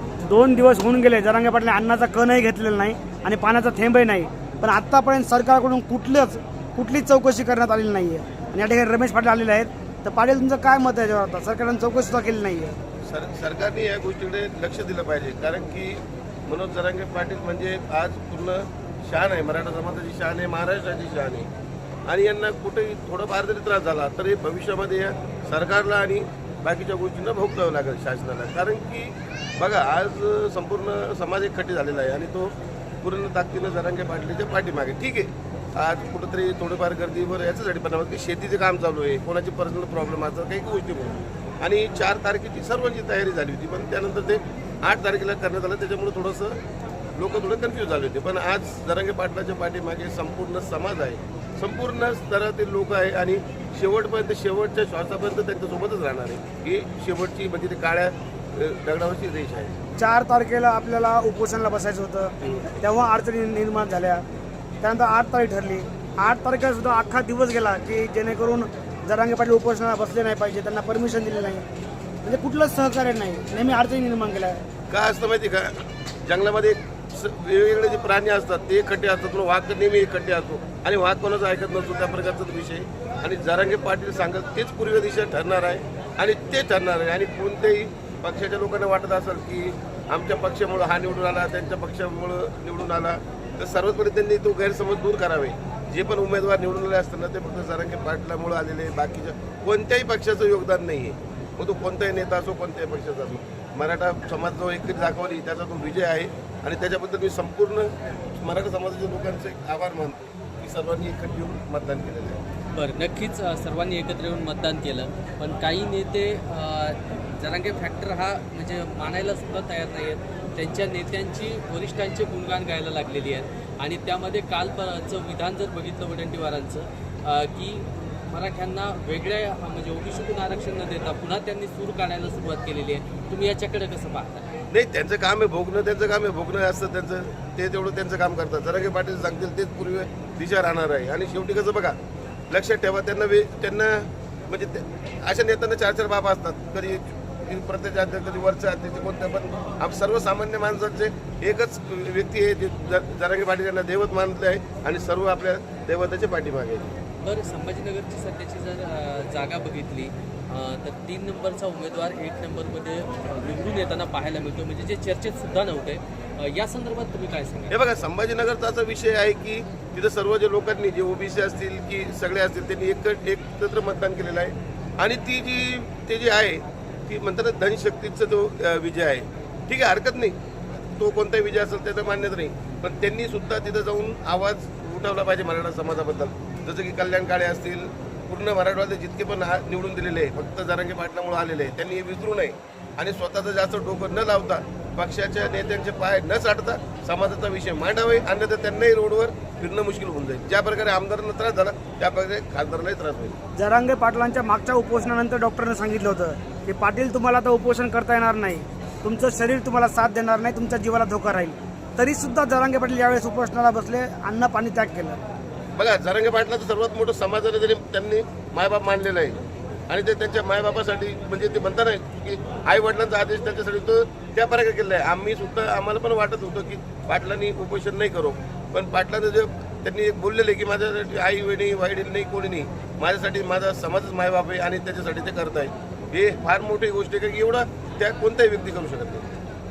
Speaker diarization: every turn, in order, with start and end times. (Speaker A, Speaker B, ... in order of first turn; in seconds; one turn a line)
Speaker A: 0.2-12.8
Speaker B: 13.1-21.5
Speaker B: 22.1-46.6
Speaker B: 47.2-59.8
Speaker A: 60.0-64.2
Speaker A: 64.8-71.7
Speaker A: 72.2-74.6
Speaker B: 74.9-75.7
Speaker B: 76.2-112.4
Speaker C: 112.7-134.5
Speaker B: 134.7-142.0
Speaker B: 142.5-156.9
Speaker C: 157.2-167.8
Speaker B: 167.7-203.4
Speaker A: 203.6-215.2
Speaker B: 215.8-239.3